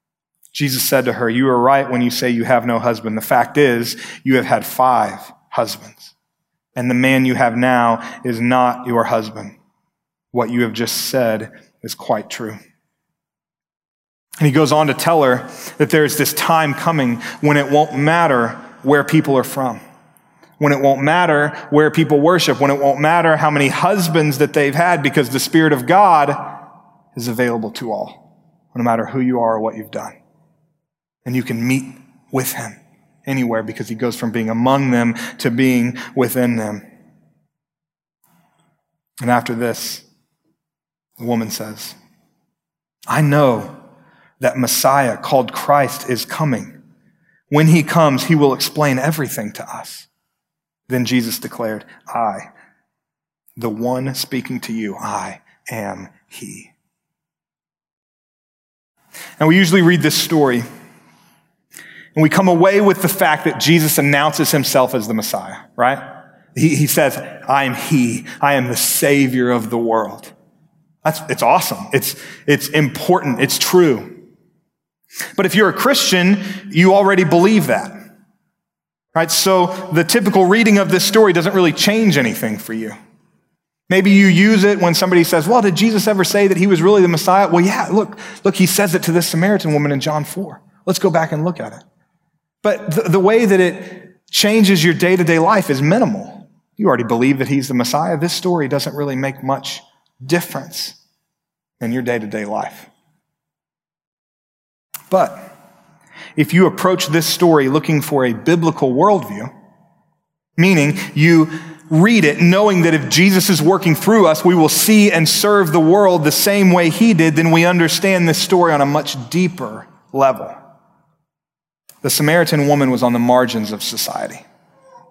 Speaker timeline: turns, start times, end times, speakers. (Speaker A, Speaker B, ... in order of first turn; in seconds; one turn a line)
Speaker A: 0.5-6.1
Speaker A: 6.8-9.6
Speaker A: 10.3-12.6
Speaker A: 14.4-19.8
Speaker A: 20.6-26.6
Speaker A: 27.1-28.2
Speaker A: 28.7-30.1
Speaker A: 31.2-36.8
Speaker A: 39.2-40.0
Speaker A: 41.2-42.0
Speaker A: 43.1-43.8
Speaker A: 44.4-46.8
Speaker A: 47.5-50.1
Speaker A: 50.9-52.5
Speaker A: 53.6-56.7
Speaker A: 59.4-60.6
Speaker A: 62.1-66.0
Speaker A: 66.5-70.3
Speaker A: 71.0-74.2
Speaker A: 75.4-78.0
Speaker A: 79.2-83.0
Speaker A: 83.9-91.8
Speaker A: 92.6-101.0
Speaker A: 101.8-102.9
Speaker A: 105.1-105.5
Speaker A: 106.4-109.5
Speaker A: 110.6-120.5
Speaker A: 122.0-124.4